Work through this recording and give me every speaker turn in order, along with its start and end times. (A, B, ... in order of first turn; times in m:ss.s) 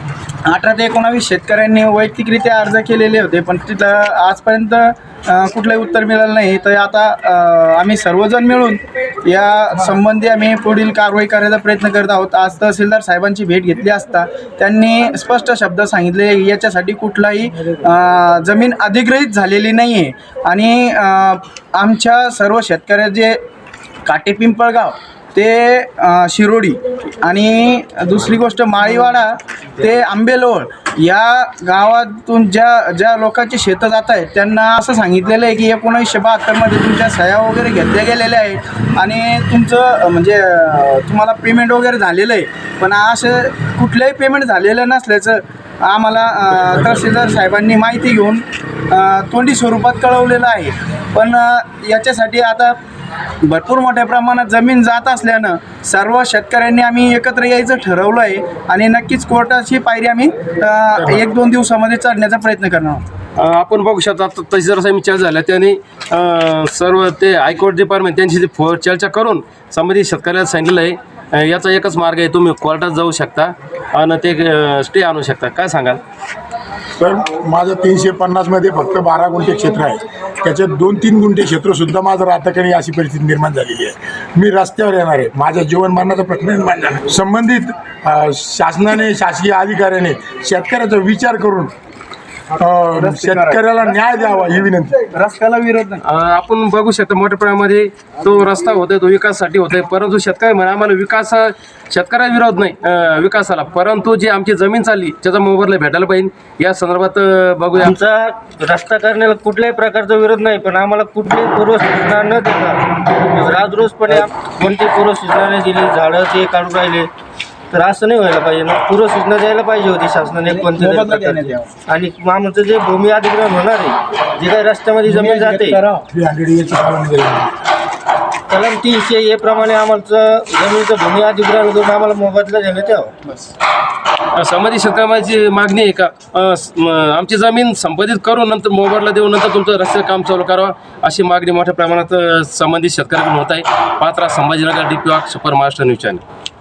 0:00.5-0:23.4 A
0:24.1-0:52.8 A
0:53.5-1:03.0 A
1:03.4-1:16.0 B
1:17.0-1:31.7 C
1:32.6-1:35.0 C
1:33.0-1:33.6 A
1:35.1-1:36.0 A
1:36.0-1:48.0 B
1:47.8-1:57.1 D
1:57.7-2:05.8 D
2:00.5-2:01.7 A
2:05.0-2:06.1 A
2:06.1-2:07.5 C
2:08.5-2:13.1 D
2:14.4-2:26.2 B